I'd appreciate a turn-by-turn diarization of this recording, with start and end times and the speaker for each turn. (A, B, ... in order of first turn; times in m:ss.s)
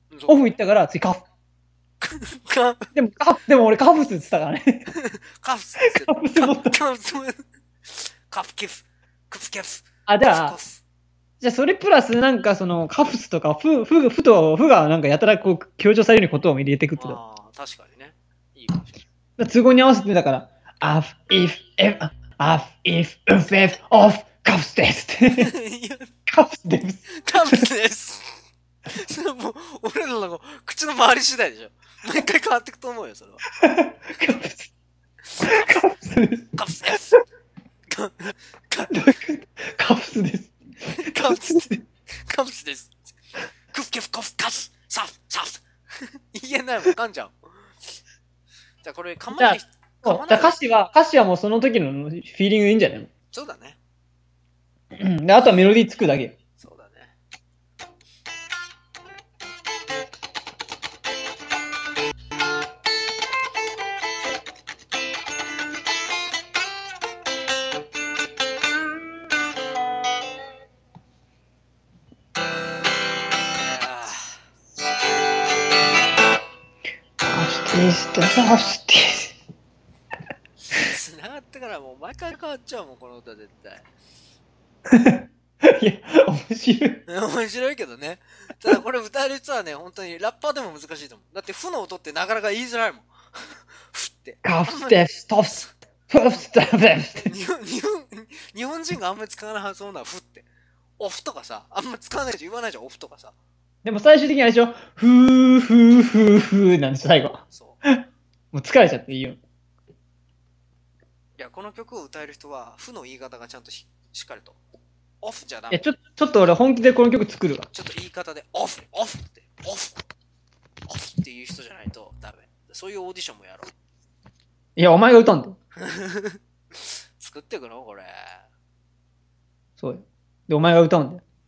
0:00.1-0:00.6 A
0:00.3-0:01.2 B
0:02.0-0:02.9 A
0:03.0-0:04.9 B
0:04.9-0:10.8 A
0:05.8-0:06.8 B
0:10.1-0:10.6 B
0:11.4-0:17.2 B
0:17.0-0:18.9 A
0:19.4-0:25.5 B
0:25.3-0:26.1 A
0:26.3-0:27.6 B
0:27.2-0:33.4 A
0:33.6-0:34.7 B
0:35.3-0:35.9 A
0:35.4-0:37.2 B
0:36.5-0:37.1 A
0:37.9-0:39.2 A
0:38.8-0:41.8 B
0:40.9-0:43.0 A
0:43.7-0:47.4 A
0:48.8-0:50.6 A
0:49.3-0:53.1 B
0:53.3-0:53.8 A
0:55.0-0:56.4 B
0:56.6-0:57.1 A
1:13.6-1:14.4 A
1:17.2-1:19.4 B
1:20.7-1:23.9 A
1:24.9-1:27.0 B
1:27.1-1:35.7 A
1:34.4-1:37.3 B
1:37.2-1:40.5 A
1:41.0-1:43.4 A
1:43.8-1:48.0 B
1:47.5-1:47.8 A
1:48.5-1:49.4 B
1:51.4-1:54.6 A
1:55.2-1:55.9 A
1:55.7-1:57.7 B
1:57.7-2:00.0 A
2:00.9-2:03.7 A
2:04.8-2:05.6 B
2:05.8-2:06.4 A
2:07.2-2:08.4 A
2:09.8-2:11.2 B